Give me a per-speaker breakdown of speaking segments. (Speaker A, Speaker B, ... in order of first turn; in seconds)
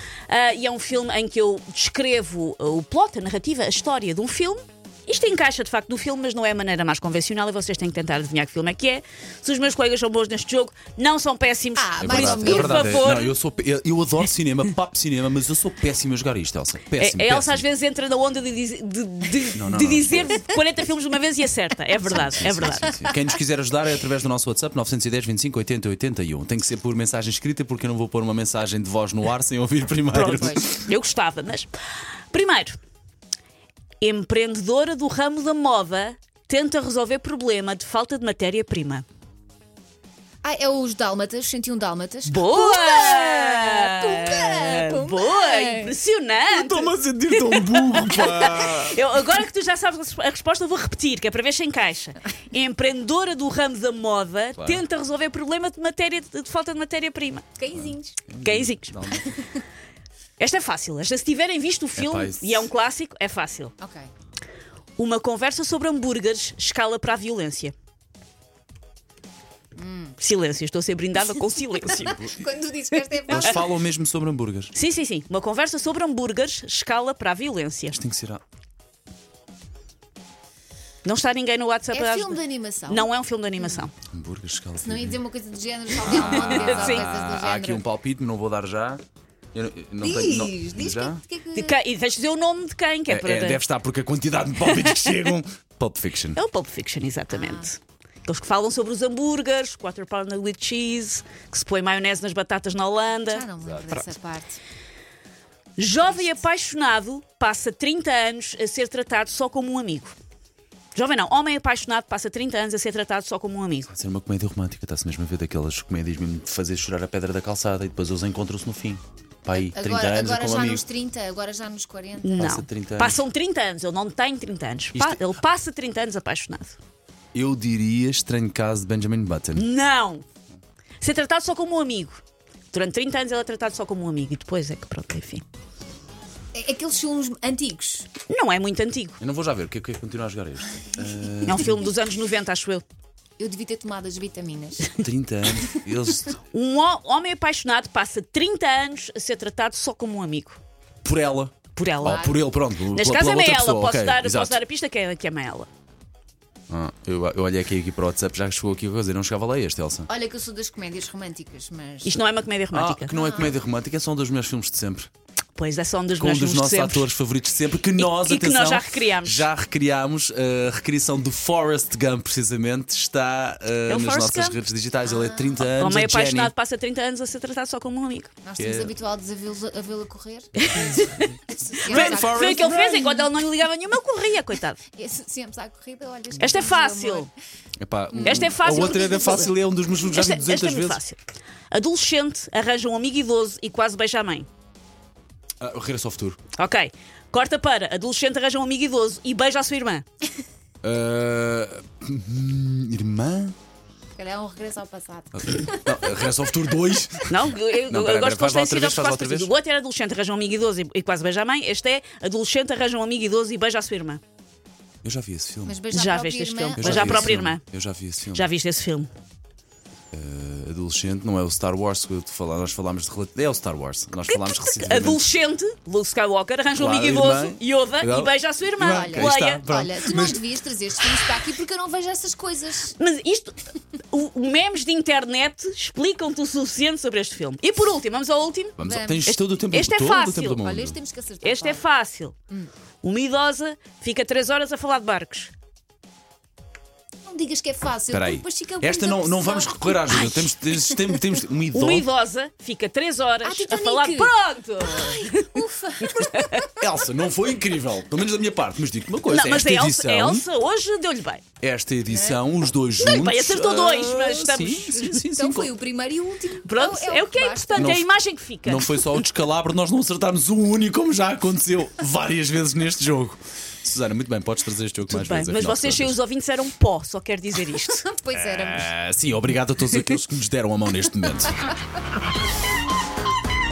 Speaker A: 0.3-13.3, 17.0-22.9, 30.1-31.7, 32.3-32.8, 34.0-39.0, 42.3-57.5, 58.4-59.0, 60.4-63.7, 65.0-67.7, 70.2-72.1, 73.3-73.6, 74.7-78.0, 81.0-83.9, 86.1-87.1, 91.5-93.6, 94.7-95.3, 96.3-104.1, 105.8-110.1, 111.0-113.9, 122.2-126.8, 129.6-130.2, 131.0-132.2, 132.7-135.4, 138.3-139.2, 141.4-142.8, 146.5-150.6, 151.8-152.3, 152.9-155.7, 162.1-163.1, 165.6-167.1, 168.0-169.5, 173.9-174.6, 175.7-178.3, 180.9-181.2, 181.8-184.8, 186.4-187.3, 188.2-194.5, 196.6-200.1, 207.3-214.2, 215.9-217.6, 218.3-219.1, 224.3-229.6, 232.9-240.6, 241.4-242.3, 243.0-245.5, 251.7-256.7, 259.3-261.4, 263.0-265.2, 266.6-269.1, 275.1-278.1
Speaker B: 11.8-13.1, 30.3-30.7, 40.4-46.0, 57.6-58.2, 63.8-64.1, 69.8-70.2, 71.8-73.8, 81.9-83.8, 84.8-87.9, 90.0-91.8, 97.3-97.7, 103.3-104.6, 119.5-122.6, 136.5-138.1, 143.4-145.0, 152.0-152.4, 160.1-162.2, 163.1-163.6, 175.1-175.6, 178.4-182.8, 184.9-187.3, 188.1-189.6, 204.2-206.5, 215.7-217.4, 228.8-232.9, 238.8-239.3, 240.5-241.8, 247.3-251.4, 253.4-256.9, 262.1-262.4, 264.9-268.0, 277.9-278.9
Speaker C: 12.0-17.6, 19.6-20.4, 22.3-30.7, 46.5-49.1, 54.6-54.8, 57.7-59.4, 62.0-62.7, 71.8-72.4, 73.3-74.7, 77.9-78.4, 84.1-85.2, 86.0-89.0, 89.5-91.2, 93.1-96.4, 113.9-120.8, 122.4-123.2, 125.0-125.3, 127.3-129.7, 139.2-141.8, 145.0-146.4, 151.0-154.6, 156.7-160.1, 162.7-165.1, 166.2-176.5, 178.6-178.9, 180.8-181.3, 181.8-183.3, 187.8-191.0, 195.6-196.4, 200.8-203.6, 205.3-209.5, 215.0-215.8, 216.8-218.5, 220.1-225.3, 226.8-230.4, 238.8-241.0, 248.1-252.1, 256.8-260.4, 261.6-265.7, 267.8-268.1, 268.6-276.2, 278.4-281.7